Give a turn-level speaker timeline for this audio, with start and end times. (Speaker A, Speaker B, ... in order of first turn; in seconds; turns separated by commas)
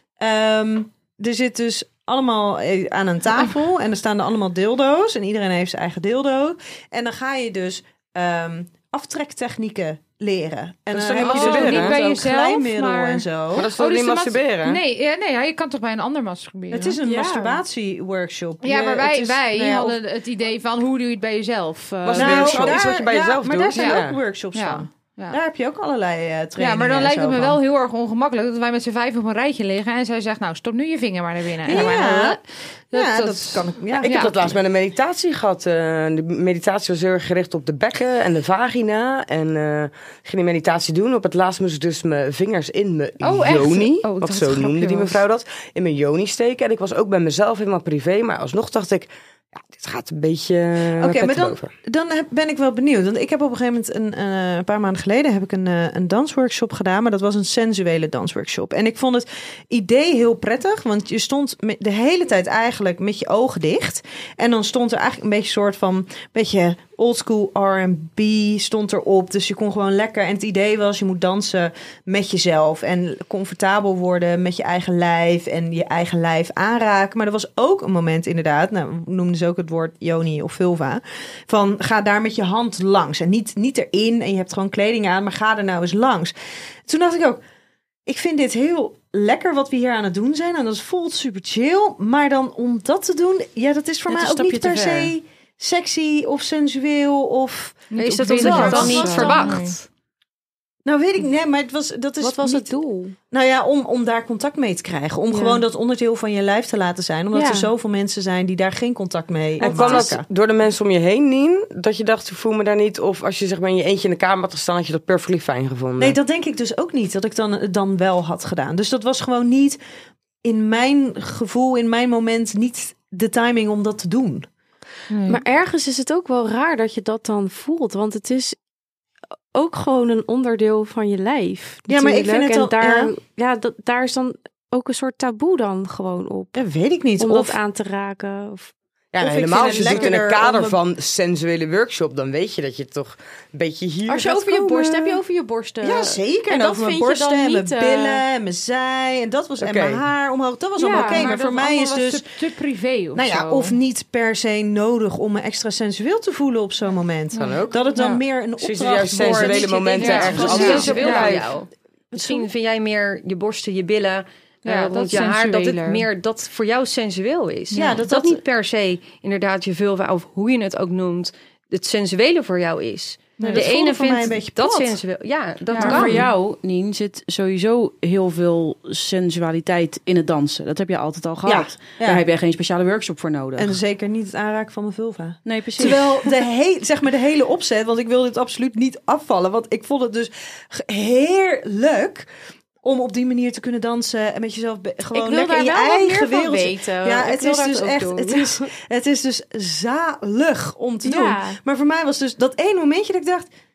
Speaker A: 0.2-13.7, Speaker B: 10.9-12.0, Speaker C: 11.2-17.0, Speaker B: 13.6-14.8, Speaker A: 16.7-20.0, Speaker D: 17.1-17.6, Speaker C: 18.6-22.8, Speaker B: 22.0-24.2, Speaker A: 22.2-27.6, Speaker C: 23.8-25.4, Speaker C: 26.6-34.3, Speaker A: 31.6-32.4, Speaker A: 32.9-34.6, Speaker B: 34.0-51.7, Speaker C: 43.2-45.2, Speaker A: 51.0-86.3, Speaker A: 86.8-87.4, Speaker A: 88.0-99.4, Speaker E: 94.1-95.1, Speaker C: 97.9-99.8, Speaker F: 98.0-99.8, Speaker A: 100.8-102.7, Speaker D: 102.2-103.2, Speaker A: 103.3-110.2, Speaker D: 105.3-105.6, Speaker D: 107.3-107.7, Speaker D: 109.6-110.2, Speaker B: 109.6-116.2, Speaker A: 116.0-119.8, Speaker A: 120.4-124.5, Speaker C: 125.1-125.4, Speaker D: 125.3-128.6, Speaker D: 129.5-136.6, Speaker A: 131.9-133.1, Speaker A: 136.5-137.6, Speaker D: 137.2-138.7, Speaker B: 139.1-145.2, Speaker A: 139.2-140.8, Speaker D: 139.5-140.2, Speaker D: 144.1-148.2, Speaker A: 145.8-152.4, Speaker B: 149.6-150.0, Speaker D: 150.8-151.3, Speaker C: 150.9-153.7, Speaker A: 153.1-161.2, Speaker C: 157.3-158.2, Speaker B: 157.4-157.8, Speaker B: 158.6-161.5, Speaker C: 159.2-161.5, Speaker F: 160.0-176.2, Speaker A: 162.1-162.5, Speaker C: 164.6-166.1, Speaker C: 167.7-168.0, Speaker A: 167.7-168.4, Speaker A: 173.4-175.0, Speaker C: 175.7-176.2, Speaker E: 175.8-183.8, Speaker A: 175.8-176.3, Speaker A: 181.4-182.2, Speaker A: 183.6-192.3, Speaker E: 185.4-186.3, Speaker A: 192.8-203.5, Speaker D: 195.1-198.7, Speaker D: 201.0-201.6